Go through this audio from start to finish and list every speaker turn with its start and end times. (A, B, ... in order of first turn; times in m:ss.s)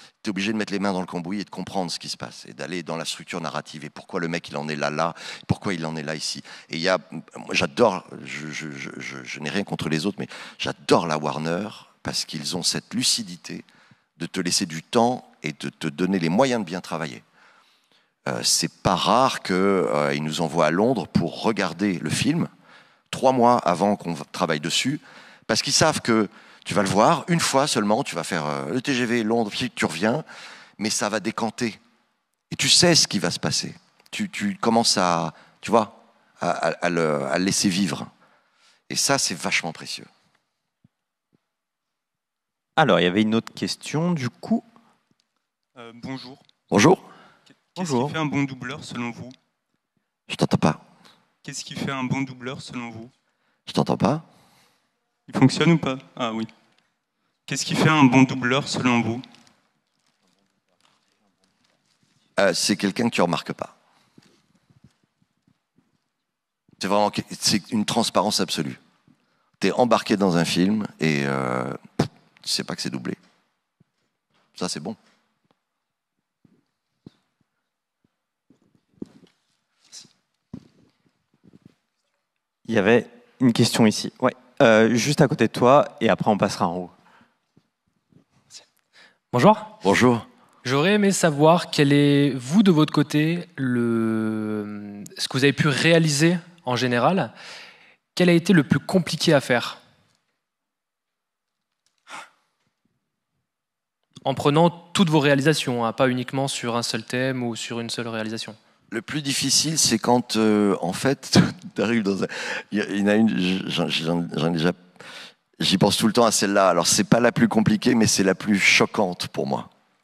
0:00.2-0:13.6 A
0:14.2-0:17.2 A
0:18.2-0:22.5 A
0:23.1-0:30.2 A
0:30.8-0:31.8 A
0:32.5-0:38.1 A
0:38.9-0:40.1 A
0:42.8-0:44.6 B
0:45.8-0:46.4 C
0:46.7-0:47.0 A
0:47.7-0:49.3 C
0:47.8-0:48.1 B
0:50.3-0:50.8 A
0:51.4-0:53.1 C
0:53.7-0:54.2 A
0:55.3-0:56.5 C
0:57.5-0:59.2 C
1:02.4-1:03.7 A
1:06.8-1:08.8 A
1:09.6-1:13.2 A
1:14.5-1:15.0 A
1:22.7-1:26.9 B
1:29.3-1:29.8 D
1:29.8-1:30.2 A
1:30.6-1:37.3 D
1:38.1-1:39.8 D
1:44.2-1:48.6 D
1:48.9-1:54.8 A
1:55.6-1:59.7 A